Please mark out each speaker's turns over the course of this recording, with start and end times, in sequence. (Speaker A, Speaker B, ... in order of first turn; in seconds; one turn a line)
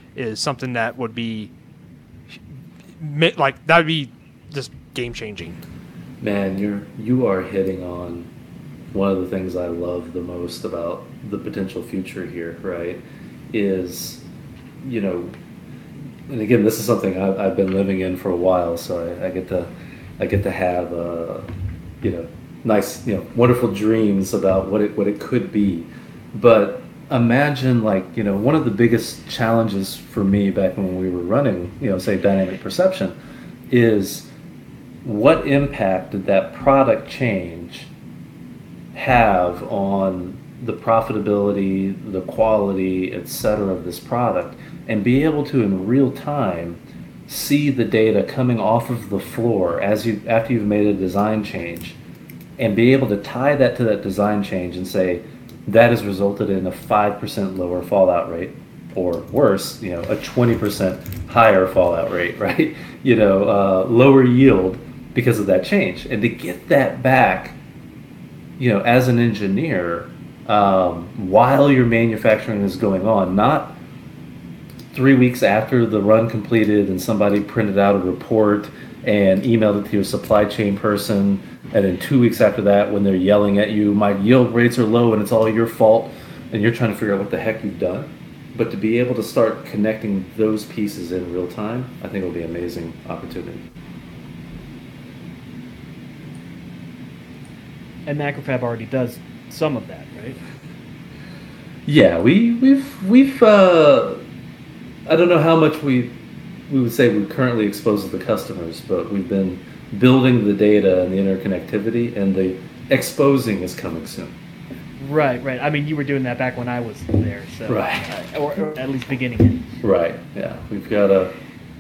Speaker A: 0.1-1.5
Speaker A: 3.0-5.6
Speaker B: 6.2-8.3
Speaker B: 8.9-14.2
Speaker B: 14.8-15.3
Speaker B: 16.3-21.5
Speaker B: 22.0-33.2
Speaker B: 33.7-34.3
Speaker B: 35.0-37.9
Speaker B: 38.9-52.0
Speaker B: 52.6-67.6
Speaker B: 68.6-73.8
Speaker B: 74.9-93.7
Speaker C: 98.1-100.4
Speaker B: 101.9-104.2
Speaker B: 105.1-106.2
Speaker B: 106.7-114.4
Speaker C: 115.0-119.7
Speaker B: 117.7-118.1
Speaker B: 119.8-121.3